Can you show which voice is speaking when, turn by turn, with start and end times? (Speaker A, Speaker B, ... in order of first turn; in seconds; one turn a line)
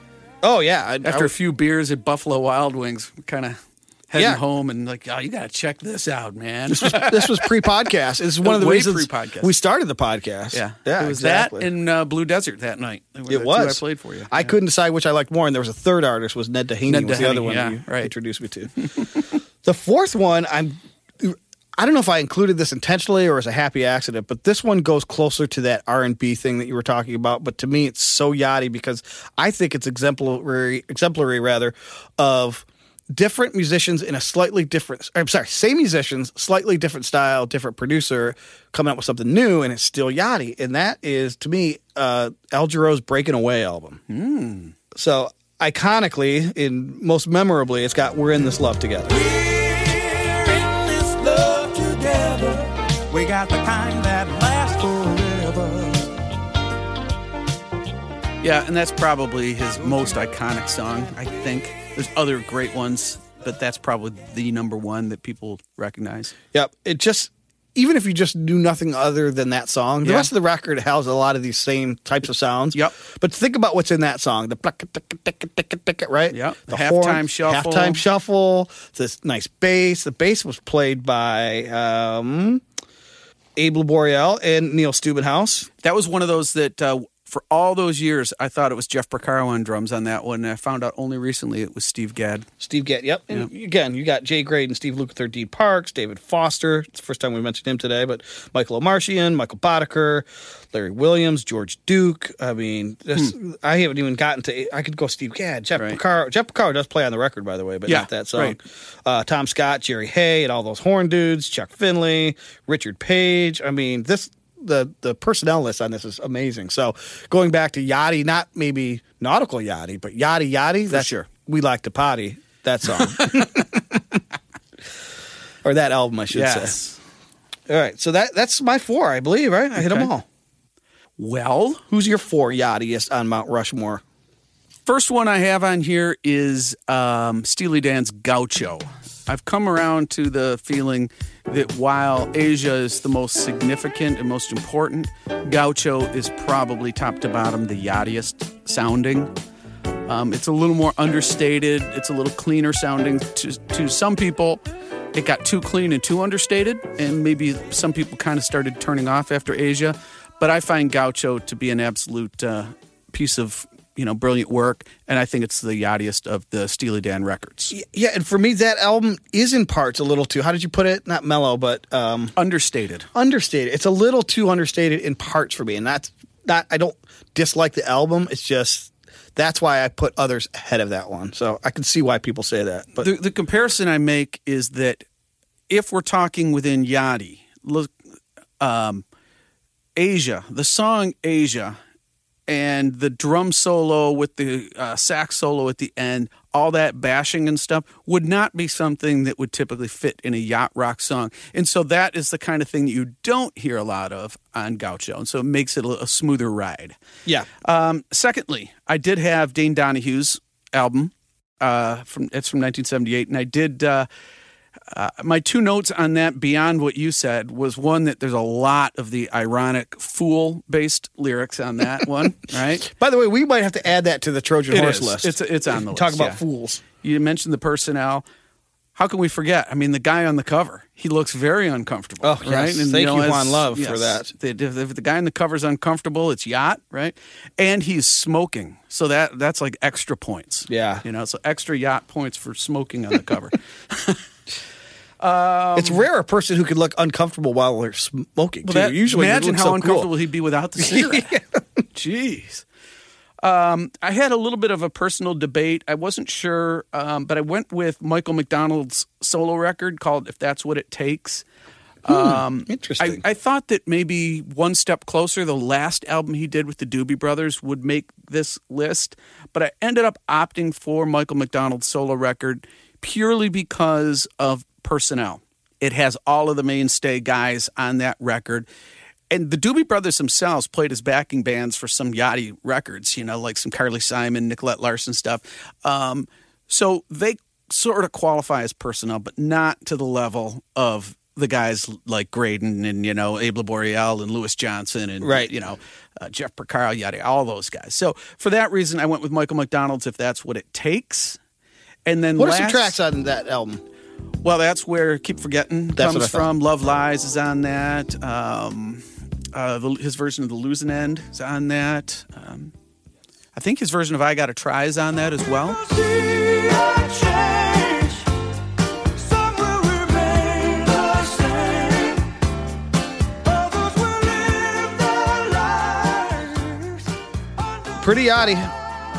Speaker A: 0.4-1.3
Speaker B: 1.0-3.6
Speaker B: 4.1-7.7
Speaker A: 4.2-4.4
Speaker A: 6.7-11.7
Speaker B: 8.4-9.5
Speaker B: 10.5-14.6
Speaker A: 13.3-18.7
Speaker B: 16.9-18.1
Speaker B: 18.8-19.3
Speaker A: 19.6-44.0
Speaker B: 44.1-44.8
Speaker A: 45.0-49.2
Speaker C: 49.1-56.2
Speaker B: 58.4-66.3
Speaker A: 66.5-82.6
Speaker B: 70.0-70.3
Speaker B: 76.3-78.0
Speaker A: 83.6-85.7
Speaker B: 85.8-92.5
Speaker A: 92.6-124.2
Speaker B: 107.9-108.6
Speaker B: 120.9-121.3
Speaker B: 123.0-123.4
Speaker A: 125.7-126.8
Speaker B: 126.3-127.0
Speaker A: 127.7-130.2
Speaker B: 129.8-130.1
Speaker B: 131.2-131.8
Speaker A: 131.9-134.0
Speaker B: 134.9-149.3
Speaker B: 150.1-154.6
Speaker B: 155.2-167.7
Speaker A: 167.7-172.3
Speaker B: 172.4-173.1
Speaker A: 173.2-183.1
Speaker B: 183.0-185.0
Speaker B: 185.7-187.9
Speaker B: 188.6-189.0
Speaker B: 190.0-191.8
Speaker B: 192.5-207.0
Speaker B: 207.6-214.1
Speaker B: 214.9-222.9
Speaker A: 222.8-226.8
Speaker B: 224.7-226.4
Speaker B: 227.0-228.2
Speaker B: 228.9-244.2
Speaker A: 232.2-234.3
Speaker A: 240.7-241.0
Speaker B: 245.2-246.0
Speaker A: 245.8-250.1
Speaker B: 248.7-251.3
Speaker A: 250.8-251.4
Speaker B: 251.9-252.6
Speaker B: 253.4-261.4
Speaker B: 262.1-278.7
Speaker A: 262.1-263.2
Speaker B: 279.3-301.4
Speaker A: 295.2-295.5
Speaker B: 302.1-303.0
Speaker A: 302.4-303.8
Speaker B: 304.4-312.7
Speaker A: 306.0-306.5
Speaker B: 313.6-315.8
Speaker C: 315.8-318.3
Speaker C: 319.2-322.3
Speaker C: 323.4-327.0
Speaker A: 328.0-328.7